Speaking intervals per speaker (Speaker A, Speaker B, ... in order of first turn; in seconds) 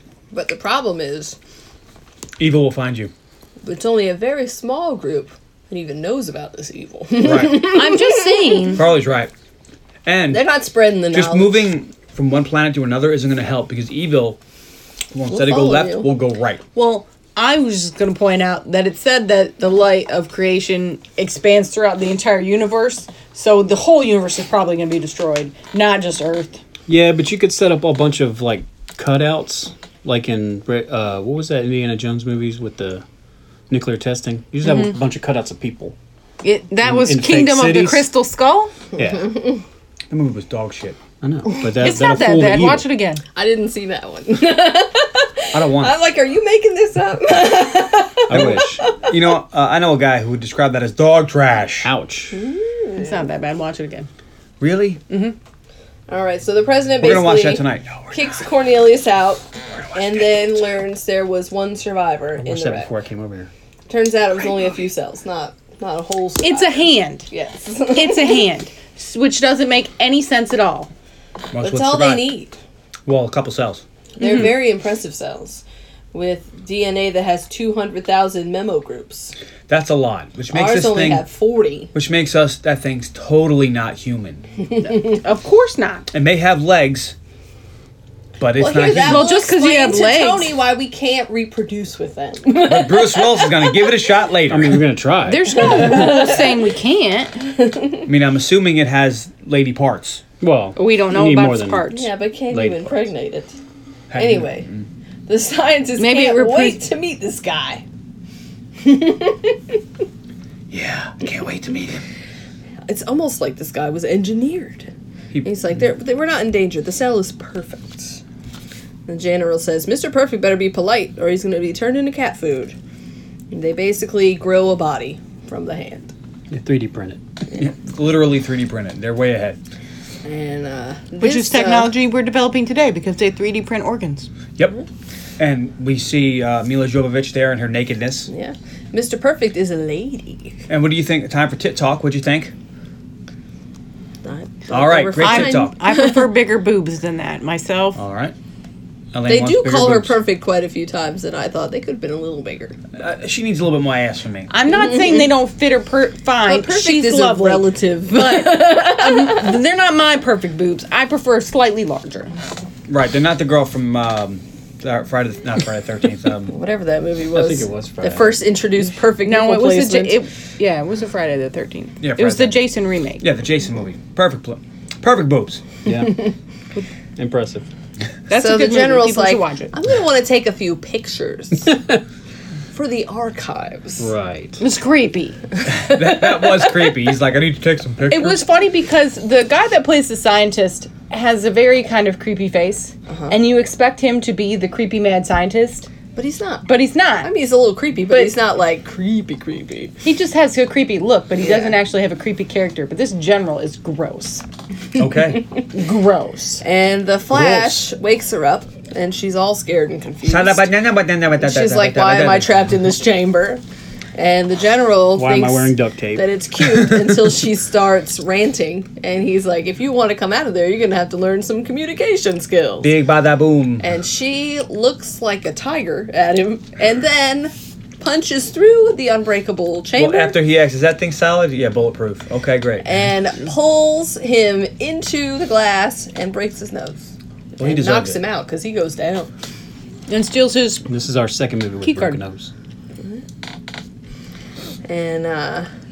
Speaker A: 0.3-1.4, 3.6-8.8, 10.3-11.7, 15.3-16.1, 39.2-39.6, 43.3-49.1, 52.3-53.2, 56.1-62.9, 63.9-68.5, 71.6-72.6, 74.2-79.3, 80.5-81.9, 84.7-85.2, 88.5-94.0, 95.6-96.4, 97.6-98.0, 101.9-103.5, 104.1-104.7, 105.3-107.8, 108.8-109.8, 112.9-118.2, 119.1-122.8, 123.5-126.1, 130.2-131.9, 138.3-140.7, 144.2-146.1, 149.3-152.8, 154.8-155.2, 156.5-159.6, 166.5-170.2, 178.3-181.8, 182.7-184.1, 193.1-193.3, 196.1-196.7, 197.2-199.9, 201.4-201.8, 206.6-210.7, 211.4-213.6, 214.1-222.9, 223.8-230.4, 232.8-239.3, 244.8-245.7
Speaker B: 2.4-3.1, 7.2-7.7, 8.7-9.3, 10.0-10.5, 11.1-14.4, 15.1-16.6, 40.1-41.0, 45.5-45.9, 48.3-51.9, 54.6-55.0, 57.0-58.3, 59.9-60.2, 71.5-72.2, 73.0-73.8, 79.7-81.2, 81.9-84.4, 86.1-87.1, 88.4-89.3, 92.5-94.9, 98.0-100.2, 104.1-104.8, 110.7-112.0, 127.5-129.6, 135.4-138.3, 140.7-142.5, 144.7-145.7, 147.9-148.3, 149.1-150.2, 153.0-154.5, 162.9-166.5, 172.0-172.6, 173.2-175.6, 185.7-188.4, 205.0-205.4, 210.2-212.5, 222.8-223.8, 229.9-232.8, 237.6-238.2
Speaker C: 7.5-8.8, 16.7-26.6, 36.4-38.7, 41.8-43.2, 53.0-54.1, 55.1-55.4, 66.4-67.3, 67.9-70.9, 74.2-74.5, 84.9-86.1, 88.8-90.5, 95.2-97.4, 100.8-102.1, 106.0-106.8, 131.2-134.3, 145.2-148.0, 154.5-162.3, 169.2-173.2, 178.3-179.7, 184.6-185.4, 188.1-195.9, 196.6-197.3, 200.0-204.4, 205.7-206.6, 240.1-240.8, 241.8-242.2
Speaker D: 26.9-33.0, 33.7-35.9, 36.8-38.1, 39.0-39.5, 41.2-42.9, 48.3-48.8, 51.8-52.4, 62.4-63.5, 94.5-96.3, 100.4-101.9, 102.5-103.0, 126.5-127.2, 167.3-168.4, 175.8-176.3, 177.2-177.7, 184.0-184.6, 207.3-207.8, 215.2-216.3, 240.8-242.5